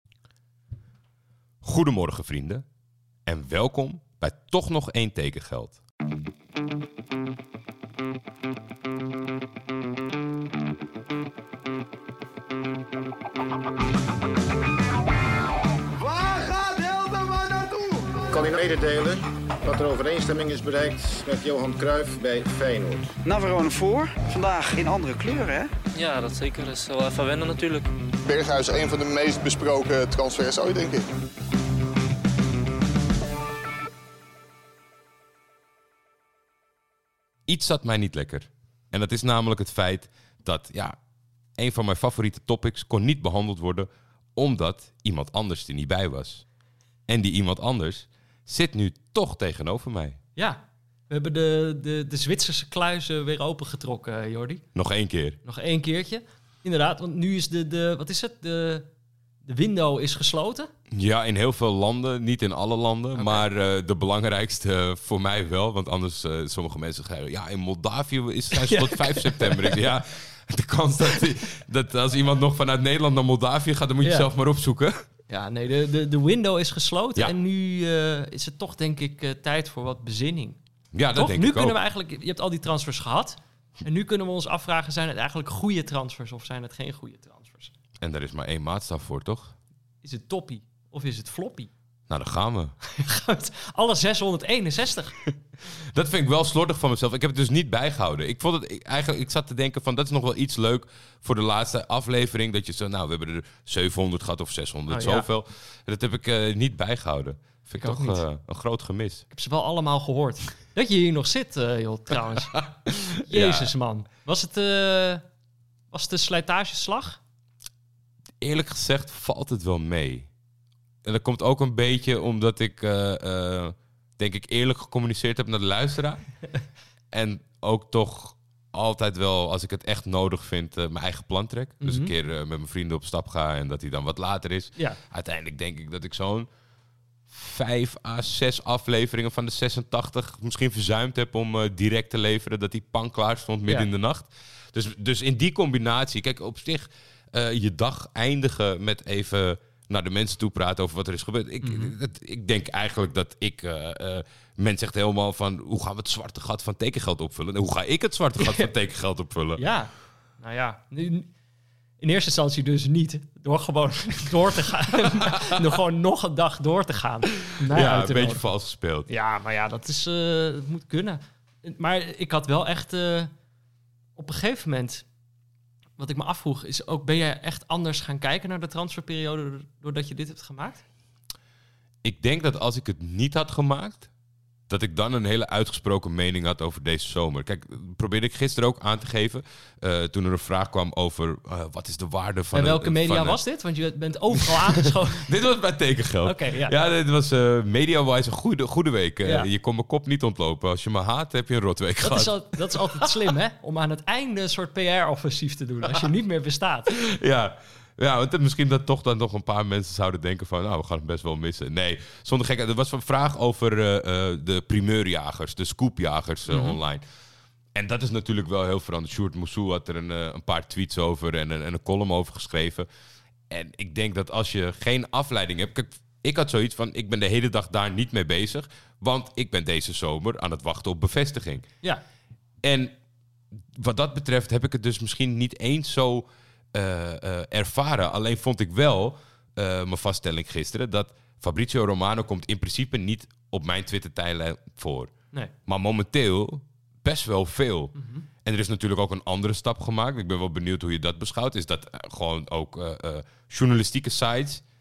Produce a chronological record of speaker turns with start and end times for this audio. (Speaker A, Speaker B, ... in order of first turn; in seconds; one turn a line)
Speaker A: 1.6-2.6
Speaker A: 3.2-5.8
Speaker B: 16.3-17.5
Speaker C: 18.2-23.1
Speaker D: 23.2-25.7
Speaker E: 25.9-27.9
Speaker B: 28.2-31.0
Speaker A: 37.5-41.0
Speaker A: 41.6-46.4
Speaker A: 47.1-50.2
Speaker F: 50.4-54.6
Speaker A: 54.7-55.4
Speaker F: 55.4-58.9
Speaker F: 59.4-60.7
Speaker A: 60.9-75.0
Speaker F: 63.1-63.4
Speaker F: 68.5-69.8
Speaker F: 74.0-74.3
Speaker F: 75.3-80.6
Speaker A: 80.9-81.8
Speaker F: 81.1-87.7
Speaker A: 88.0-89.5
Speaker F: 90.0-91.7
Speaker A: 92.1-92.7
Speaker F: 92.8-95.2
Speaker A: 95.7-109.2
Speaker F: 104.9-105.3
Speaker F: 107.7-108.2
Speaker F: 109.3-112.6
Speaker A: 112.6-113.7
Speaker F: 113.2-115.2
Speaker F: 115.9-117.2
Speaker A: 118.4-120.3
Speaker A: 121.0-126.2
Speaker A: 127.1-136.5
Speaker F: 131.8-132.1
Speaker A: 137.3-159.6
Speaker F: 151.6-151.9
Speaker F: 158.4-158.7
Speaker F: 159.6-161.3
Speaker F: 162.0-168.4
Speaker A: 165.1-165.7
Speaker A: 167.7-169.1
Speaker F: 169.1-173.3
Speaker F: 174.2-175.0
Speaker F: 176.0-180.8
Speaker A: 182.0-184.1
Speaker A: 184.7-193.4
Speaker F: 192.5-195.3
Speaker A: 194.4-203.1
Speaker F: 196.2-196.8
Speaker F: 199.2-199.5
Speaker F: 202.0-206.9
Speaker A: 206.9-217.0
Speaker F: 216.5-216.8
Speaker A: 217.7-222.9
Speaker A: 223.5-231.7
Speaker A: 232.6-232.9
Speaker A: 233.7-245.1
Speaker A: 245.7-254.6
Speaker F: 247.9-248.2